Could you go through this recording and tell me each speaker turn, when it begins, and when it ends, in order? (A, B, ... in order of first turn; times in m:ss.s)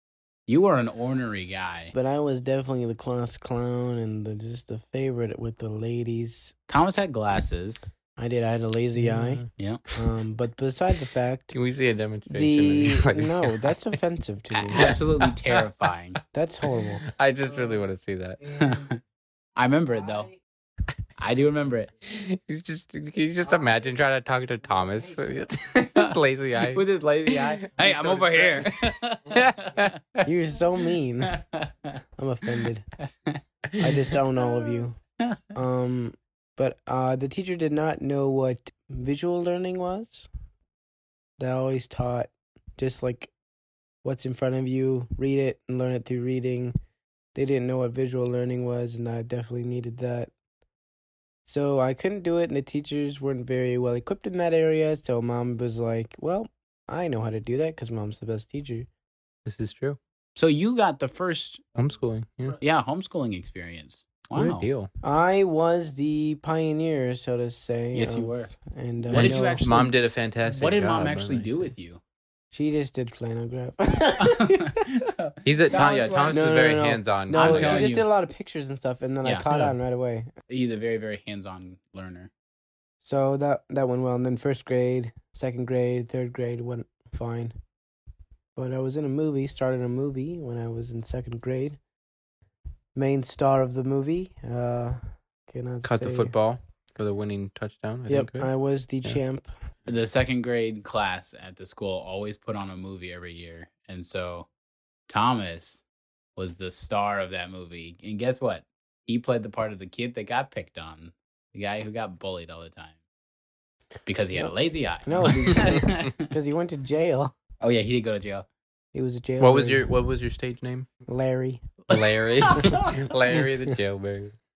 0:00.5-0:01.9 A
0:01.9-0:06.5 B
0:06.7-0:07.8 A
0:08.2-0:09.4 B
0:09.0-0:09.5 C
0:10.0-0:11.5 B
0:11.5-0:13.7 C
0:12.3-0:15.0 B
0:14.5-0:16.2 A
0:14.8-0:15.6 C
0:16.3-0:17.0 B
0:16.8-0:18.4 C
0:18.5-0:19.0 A
0:19.6-0:20.3 A
0:21.2-0:21.9 A
0:22.0-0:28.6 C
0:25.8-0:29.8 A
0:29.3-0:30.3 C
0:30.2-0:31.3 B
0:31.2-0:32.0 A
0:32.2-0:32.8 B
0:33.8-0:35.0 B
0:35.5-0:40.3 B
0:41.4-0:43.3 B
0:44.0-0:46.7 B
0:47.3-0:50.3 B
0:51.4-0:58.9 B
0:59.4-1:00.0 C
1:00.4-1:01.6 A
1:01.8-1:02.6 C
1:02.5-1:04.7 A
1:04.3-1:04.9 C
1:05.0-1:09.7 B
1:07.9-1:08.5 A
1:09.1-1:09.9 A
1:09.1-1:11.7 C
1:10.4-1:12.0 A
1:12.5-1:14.7 B
1:14.2-1:16.5 A
1:15.4-1:18.0 C
1:15.8-1:20.3 B
1:17.3-1:18.1 A
1:19.5-1:19.7 C
1:20.5-1:22.3 A
1:23.0-1:27.5 B
1:28.6-1:31.8 B
1:33.0-1:36.3 B
1:35.8-1:38.5 C
1:38.1-1:39.5 B
1:39.9-1:44.5 A
1:45.1-1:45.8 A
1:46.4-1:53.0 A
1:54.0-1:56.3 A
1:55.0-1:57.3 B
1:57.6-1:58.5 A
1:58.9-1:59.9 B
1:59.4-2:00.9 C
2:01.1-2:01.6 B
2:01.9-2:04.3 C
2:02.4-2:02.9 A